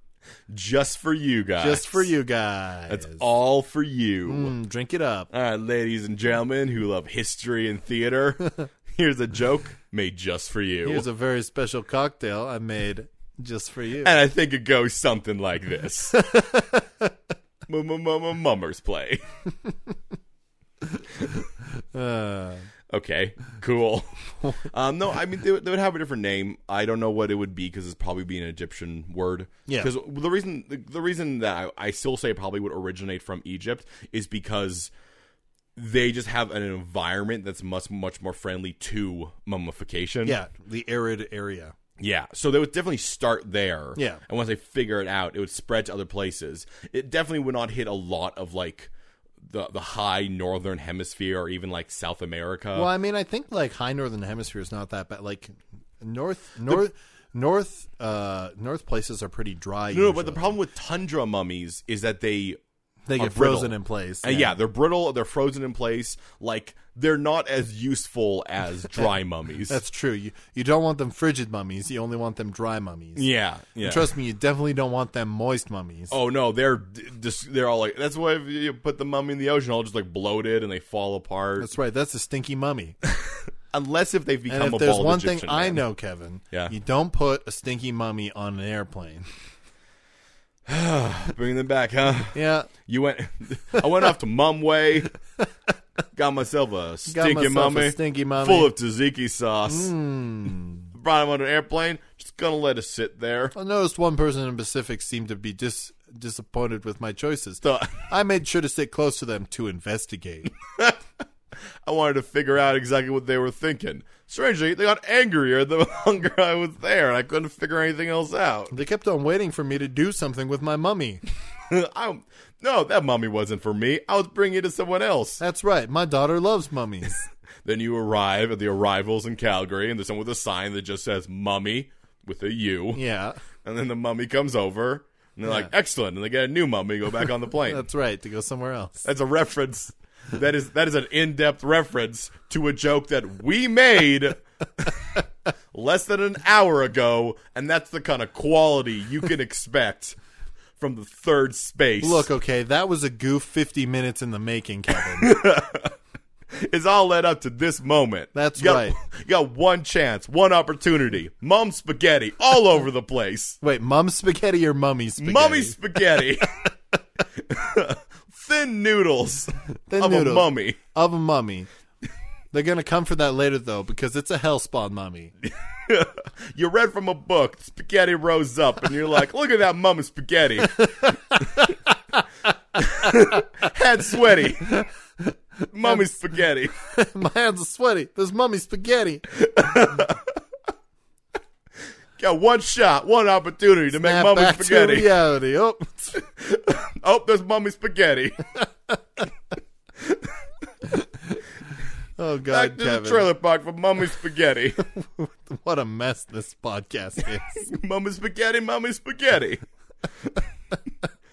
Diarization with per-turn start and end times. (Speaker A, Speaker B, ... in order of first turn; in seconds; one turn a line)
Speaker A: 0.5-2.1
Speaker B: 1.6-3.2
Speaker A: 2.9-4.5
Speaker B: 4.3-5.3
Speaker A: 5.3-11.1
Speaker B: 10.8-14.2
Speaker A: 14.0-16.1
Speaker B: 16.1-17.1
Speaker A: 17.7-19.2
Speaker B: 21.7-22.7
Speaker A: 22.9-24.1
Speaker A: 24.6-34.9
Speaker A: 35.8-40.4
Speaker B: 40.2-41.7
Speaker A: 42.0-48.9
Speaker B: 44.0-44.2
Speaker A: 49.4-52.9
Speaker B: 52.7-60.5
Speaker A: 59.9-62.6
Speaker B: 63.1-64.5
Speaker A: 63.2-69.8
Speaker B: 69.7-73.3
Speaker A: 73.2-74.1
Speaker B: 73.8-76.1
Speaker A: 76.1-81.7
Speaker B: 81.6-83.0
Speaker A: 83.0-85.8
Speaker B: 84.5-89.3
Speaker A: 90.7-95.1
Speaker B: 92.3-92.7
Speaker A: 96.1-99.9
Speaker B: 97.1-98.7
Speaker B: 99.7-100.9
Speaker A: 100.9-103.5
Speaker B: 103.5-110.5
Speaker A: 107.6-108.0
Speaker A: 110.7-111.0
Speaker A: 111.8-118.7
Speaker B: 118.7-121.2
Speaker A: 121.7-125.4
Speaker B: 125.4-127.3
Speaker A: 127.6-133.0
Speaker B: 132.9-133.4
Speaker A: 133.6-137.8
Speaker B: 137.6-139.0
Speaker A: 139.0-145.2
Speaker A: 145.7-150.2
Speaker A: 150.8-152.3
Speaker B: 152.0-155.3
Speaker A: 155.0-155.9
Speaker A: 156.5-163.6
Speaker B: 158.3-159.0
Speaker B: 163.6-166.2
Speaker A: 165.2-166.5
Speaker A: 167.3-170.8
Speaker B: 169.9-171.7
Speaker B: 172.5-175.3
Speaker A: 175.4-181.1
Speaker B: 180.7-182.2
Speaker A: 182.8-184.8
Speaker B: 183.0-183.4
Speaker B: 184.6-186.1
Speaker A: 185.7-186.7
Speaker B: 186.7-189.3
Speaker A: 189.3-190.4
Speaker A: 192.2-195.1
Speaker B: 193.9-196.2
Speaker A: 196.2-198.6
Speaker A: 200.0-200.3
Speaker B: 202.2-203.3
Speaker A: 202.5-204.8
Speaker B: 204.8-207.7
Speaker A: 207.5-209.6